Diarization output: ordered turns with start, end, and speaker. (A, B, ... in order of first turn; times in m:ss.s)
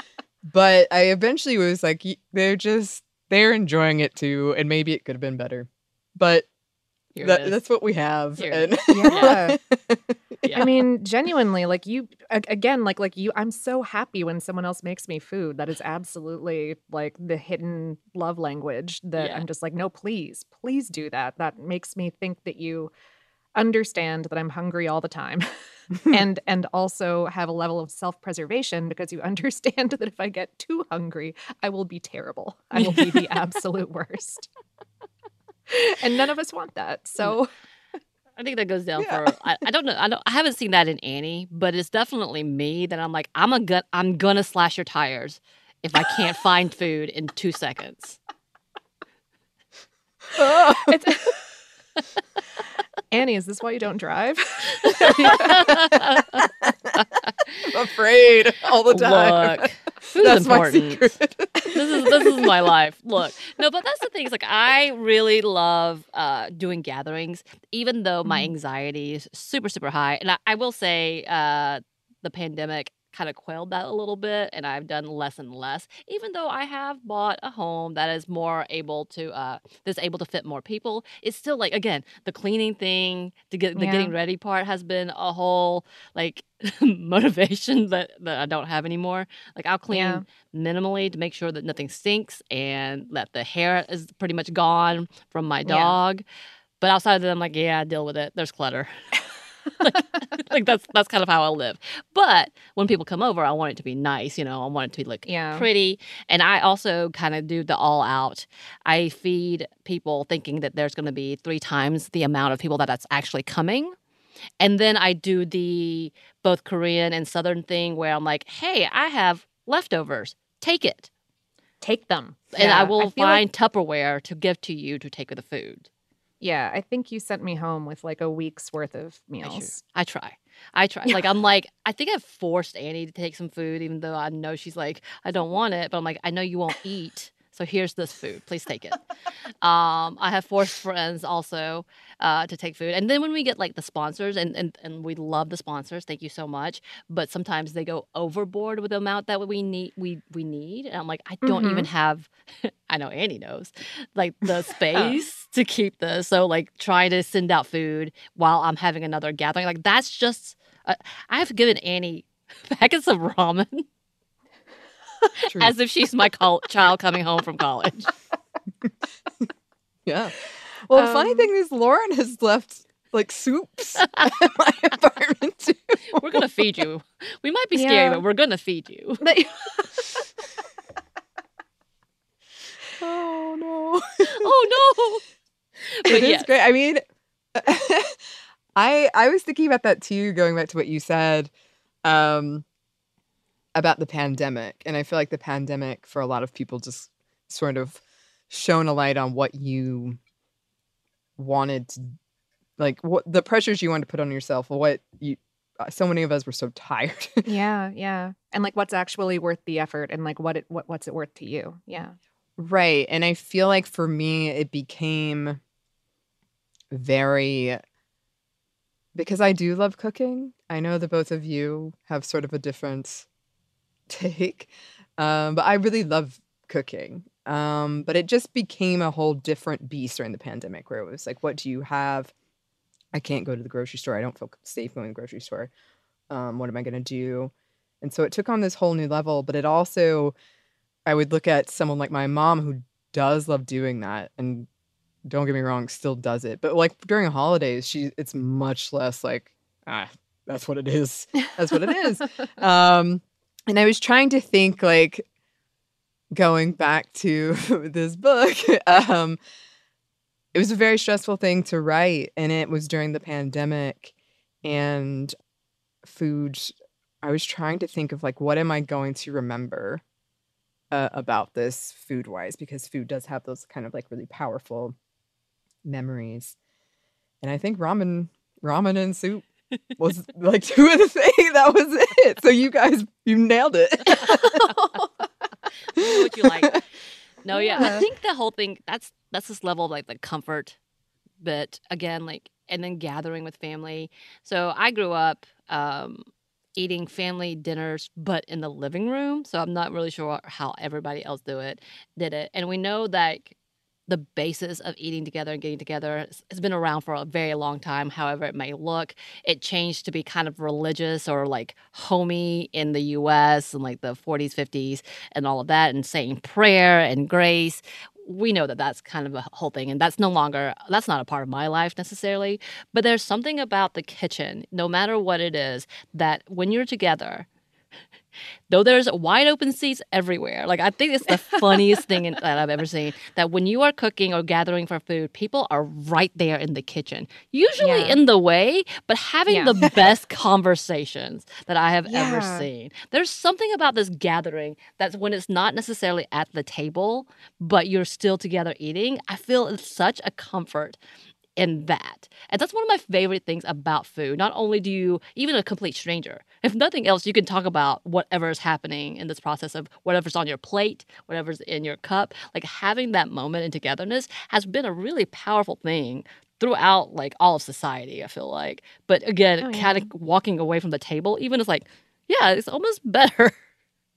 0:00.4-0:06.5 A
0:07.1-0:07.6 B
0:07.2-0:10.6 A
0:08.4-0:09.4 B
0:08.9-0:09.6 C
0:10.4-0:10.8 B
0:10.6-0:22.9 C
0:19.2-0:19.4 B
0:23.6-0:25.5 C
0:26.0-0:34.5 C
0:32.8-0:33.2 B
0:35.7-0:37.5 C
0:38.4-0:48.2 B
0:39.0-0:39.2 A
0:50.3-0:50.9 A
0:50.8-0:51.3 C
0:53.1-0:55.5 C
0:55.0-0:56.5 B
0:56.6-0:56.9 A
0:57.6-0:59.7 A
0:58.9-1:01.1 B
1:00.2-1:02.3 A
1:01.7-1:36.2 B
1:08.2-1:08.5 C
1:23.8-1:24.1 C
1:29.9-1:30.2 C
1:35.6-1:36.0 C
1:36.8-1:38.9 B
1:39.8-1:53.9 B
1:45.2-1:45.6 C
1:54.6-2:01.1 B
2:01.8-2:03.4 C
2:02.5-2:05.9 B
2:06.4-2:09.8 C
2:09.4-2:19.0 B
2:19.6-2:43.8 B
2:31.4-2:31.9 C
2:34.9-2:35.2 C
2:45.4-2:45.7 A
2:45.6-2:48.1 B
2:50.0-2:56.0 A
2:50.9-2:51.5 C
2:56.1-2:59.3 B
2:57.7-2:58.2 C
2:59.2-3:00.0 C
3:03.0-3:04.5 A
3:04.3-3:05.2 B
3:06.0-3:06.5 B
3:06.0-3:07.0 A
3:07.5-3:08.2 A
3:08.7-3:11.5 A
3:12.0-3:12.6 A
3:13.7-3:20.2 A
3:21.4-3:22.1 A
3:22.8-3:27.4 A
3:27.4-3:32.2 C
3:32.6-3:35.6 A
3:36.9-3:37.8 A
3:39.1-3:43.2 A
3:44.1-3:52.3 A
3:53.1-3:55.7 A
3:56.3-4:00.3 A
4:01.0-4:04.7 A
4:05.2-4:15.2 A
4:16.3-4:19.4 A
4:20.5-4:24.1 A
4:24.6-4:25.3 A
4:26.0-4:30.0 A
4:30.9-4:35.0 A
4:35.8-4:36.5 A
4:37.4-4:39.4 A
4:40.0-4:44.5 A
4:44.1-4:45.1 C
4:45.9-4:46.8 B
4:46.0-4:46.7 A
4:47.4-4:50.8 B
4:47.5-4:48.0 C
4:51.4-5:03.5 B
5:04.1-5:27.4 B
5:28.7-5:51.0 B
5:37.8-5:38.2 C
5:39.5-5:39.9 C
5:42.1-5:42.7 C
5:51.6-6:13.5 B
6:09.6-6:10.1 C